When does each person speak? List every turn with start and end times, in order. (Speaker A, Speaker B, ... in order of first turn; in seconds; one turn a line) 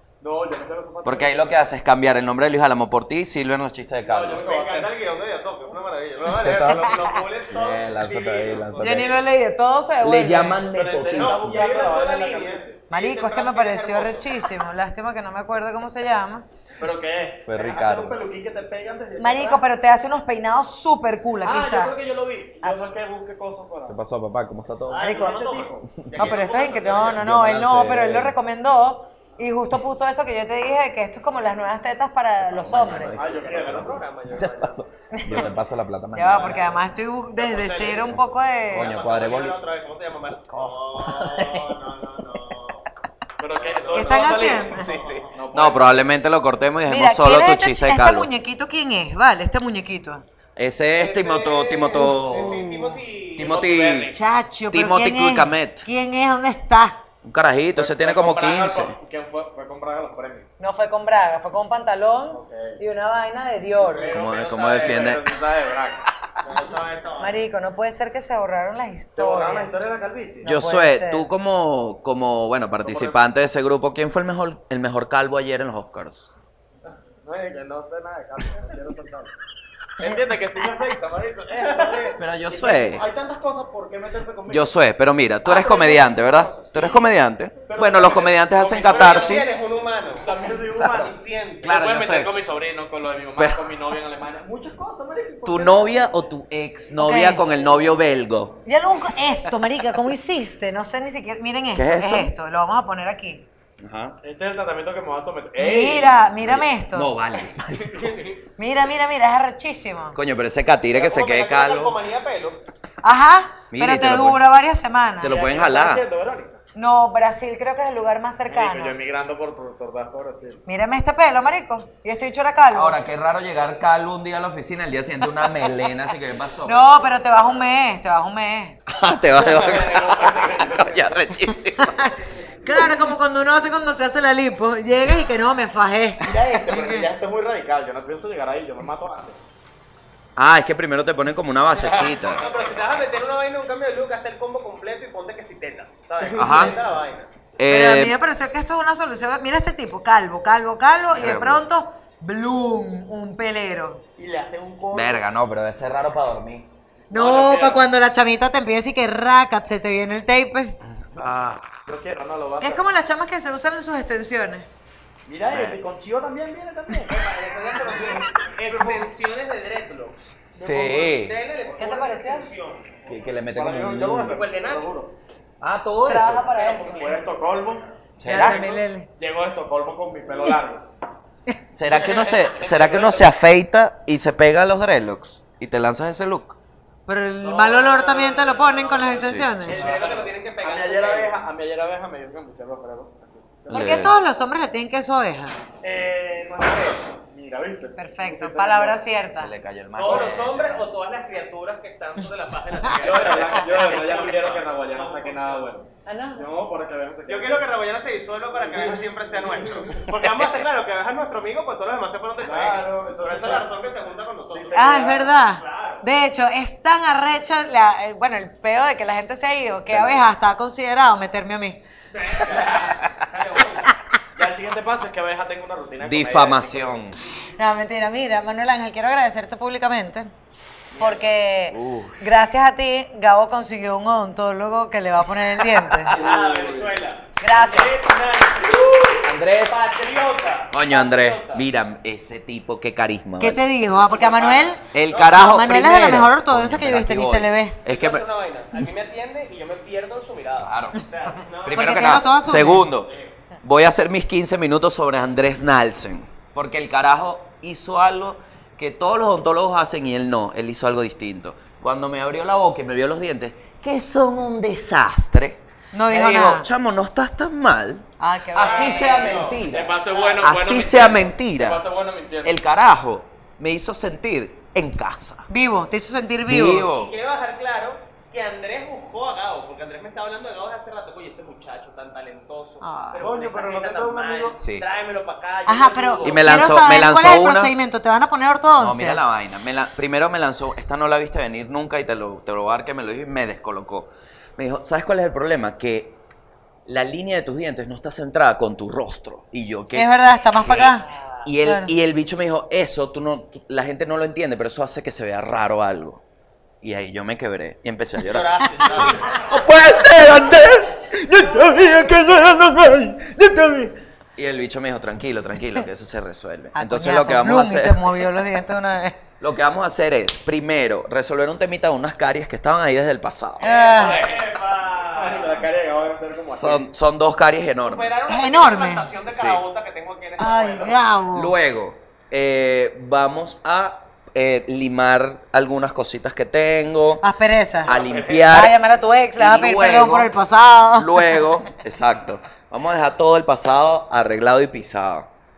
Speaker A: 0.2-1.6
Speaker B: 1.0-4.4
Speaker A: 4.0-4.9
Speaker C: 4.4-9.2
Speaker B: 6.2-9.2
Speaker D: 8.8-10.6
Speaker B: 10.0-11.7
Speaker A: 10.7-12.8
Speaker C: 11.1-14.3
Speaker D: 12.9-16.5
Speaker A: 16.8-19.6
Speaker B: 17.5-18.2
Speaker D: 19.2-21.9
Speaker A: 21.4-24.0
Speaker D: 22.6-22.9
Speaker B: 23.9-25.1
Speaker C: 24.9-27.2
Speaker A: 25.0-25.9
Speaker D: 25.1-25.4
Speaker B: 26.0-26.3
Speaker D: 26.2-33.2
Speaker B: 27.1-28.4
Speaker B: 32.4-36.8
Speaker A: 33.1-34.1
Speaker C: 33.2-35.5
Speaker D: 35.1-35.4
Speaker D: 36.1-38.9
Speaker C: 37.4-38.2
Speaker B: 38.7-39.6
Speaker C: 38.7-42.9
Speaker B: 40.5-41.8
Speaker A: 43.4-46.0
Speaker C: 43.5-45.4
Speaker D: 43.9-44.9
Speaker B: 45.5-48.3
Speaker D: 46.9-50.2
Speaker B: 50.6-52.6
Speaker C: 51.0-54.1
Speaker D: 52.0-53.0
Speaker B: 53.4-54.1
Speaker D: 54.1-57.0
Speaker B: 54.7-55.9
Speaker B: 57.2-59.0
Speaker A: 57.8-60.5
Speaker D: 60.6-64.2
Speaker A: 62.3-62.8
Speaker A: 63.8-66.7
Speaker C: 63.9-65.2
Speaker B: 64.1-65.2
Speaker C: 66.4-67.5
Speaker D: 67.2-69.7
Speaker A: 69.2-70.5
Speaker D: 70.4-71.3
Speaker B: 70.4-76.3
Speaker A: 72.8-73.2
Speaker A: 77.2-79.3
Speaker A: 80.0-84.7
Speaker C: 81.6-82.0
Speaker B: 82.2-83.0
Speaker B: 84.5-89.6
Speaker A: 85.6-86.9
Speaker C: 86.6-87.0
Speaker A: 87.7-89.5
Speaker C: 88.7-90.3
Speaker A: 90.2-96.3
Speaker B: 90.8-91.1
Speaker C: 90.9-91.9
Speaker B: 91.6-92.3
Speaker B: 93.4-93.6
Speaker B: 95.5-98.6
Speaker D: 97.0-97.4
Speaker D: 98.7-103.5
Speaker B: 101.8-102.3
Speaker B: 103.8-104.2
Speaker A: 104.2-106.2
Speaker D: 105.6-107.1
Speaker B: 106.4-108.1
Speaker A: 107.7-108.4
Speaker D: 108.6-110.2
Speaker B: 110.2-112.0
Speaker C: 110.9-112.6
Speaker D: 113.0-115.4
Speaker B: 113.7-114.4
Speaker B: 115.2-116.0
Speaker A: 115.3-116.6
Speaker D: 116.8-119.0
Speaker A: 118.5-120.6
Speaker D: 120.7-123.0
Speaker B: 122.7-127.0
Speaker D: 126.6-128.8
Speaker B: 128.9-132.1
Speaker A: 129.3-131.1
Speaker D: 131.8-137.1
Speaker A: 136.2-139.4
Speaker B: 140.4-142.4
Speaker A: 141.7-142.9
Speaker C: 142.3-147.3
Speaker A: 146.2-146.8
Speaker B: 146.4-146.8
Speaker B: 147.6-148.1
Speaker D: 147.7-154.0
Speaker B: 151.2-151.6
Speaker A: 154.2-155.2
Speaker B: 154.9-156.7
Speaker A: 157.1-157.8
Speaker D: 157.1-160.8
Speaker B: 160.8-161.7
Speaker A: 161.9-162.8
Speaker D: 162.6-164.7
Speaker A: 165.3-169.1
Speaker B: 165.5-165.8
Speaker C: 167.1-170.2
Speaker A: 170.6-171.1
Speaker B: 170.6-171.4
Speaker C: 170.8-173.0
Speaker D: 171.8-172.5
Speaker B: 173.1-174.4
Speaker A: 173.1-175.1
Speaker C: 174.3-174.9
Speaker B: 175.6-176.5
Speaker D: 176.1-177.0
Speaker A: 176.5-180.8
Speaker C: 176.6-177.2
Speaker B: 178.2-178.8
Speaker D: 178.2-179.1
Speaker B: 181.7-186.6
Speaker C: 181.9-182.6
Speaker A: 182.0-183.2
Speaker D: 187.1-189.8
Speaker C: 187.4-191.3
Speaker B: 189.2-189.7
Speaker A: 189.6-194.1
Speaker B: 193.7-194.1
Speaker D: 193.7-195.6
Speaker A: 195.8-199.0
Speaker D: 198.0-199.5
Speaker B: 199.3-200.8
Speaker C: 199.9-205.7
Speaker A: 200.1-200.4
Speaker D: 202.9-203.9
Speaker A: 202.9-207.6
Speaker D: 206.1-206.5
Speaker C: 207.3-216.0
Speaker A: 208.5-210.0
Speaker B: 210.2-210.6
Speaker A: 212.4-213.7
Speaker A: 214.5-215.3
Speaker D: 214.8-221.8
Speaker B: 219.9-220.2
Speaker C: 222.1-223.9
Speaker A: 222.4-222.9
Speaker B: 223.0-223.3
Speaker A: 224.4-227.0
Speaker B: 226.0-227.2
Speaker D: 227.6-230.3
Speaker D: 231.0-236.2
Speaker B: 231.7-232.2
Speaker A: 236.1-237.0
Speaker C: 236.1-241.7
Speaker D: 237.4-237.9
Speaker B: 239.2-239.8
Speaker B: 240.7-243.6
Speaker D: 243.4-247.8
Speaker C: 243.9-245.7
Speaker B: 244.9-248.2
Speaker C: 247.9-252.3
Speaker B: 250.6-251.0
Speaker B: 251.6-253.1
Speaker D: 251.7-252.9
Speaker C: 253.1-253.3
Speaker B: 253.6-271.8
Speaker D: 265.9-266.7
Speaker D: 268.2-269.1
Speaker C: 268.6-270.4
Speaker A: 269.1-272.6
Speaker B: 272.4-275.5
Speaker D: 275.5-276.9
Speaker B: 276.5-277.1
Speaker C: 276.9-286.7
Speaker D: 282.8-283.2
Speaker A: 283.1-284.6
Speaker D: 285.7-289.2
Speaker B: 286.2-287.7
Speaker B: 288.8-296.2
Speaker B: 296.9-306.2
Speaker D: 299.9-301.1
Speaker C: 300.8-301.5
Speaker D: 301.6-301.9
Speaker B: 306.8-318.3
Speaker C: 308.2-309.6
Speaker D: 316.7-319.2
Speaker B: 319.4-323.7
Speaker D: 323.6-324.3
Speaker C: 323.6-325.7
Speaker A: 323.9-324.5
Speaker A: 325.1-326.9
Speaker B: 326.5-328.2
Speaker C: 327.8-331.0
Speaker D: 328.3-329.1
Speaker B: 329.3-329.6
Speaker D: 330.4-331.5
Speaker B: 331.3-337.2
Speaker D: 337.2-341.5
Speaker B: 337.9-338.8
Speaker A: 337.9-338.5
Speaker B: 339.4-340.4
Speaker B: 340.9-345.3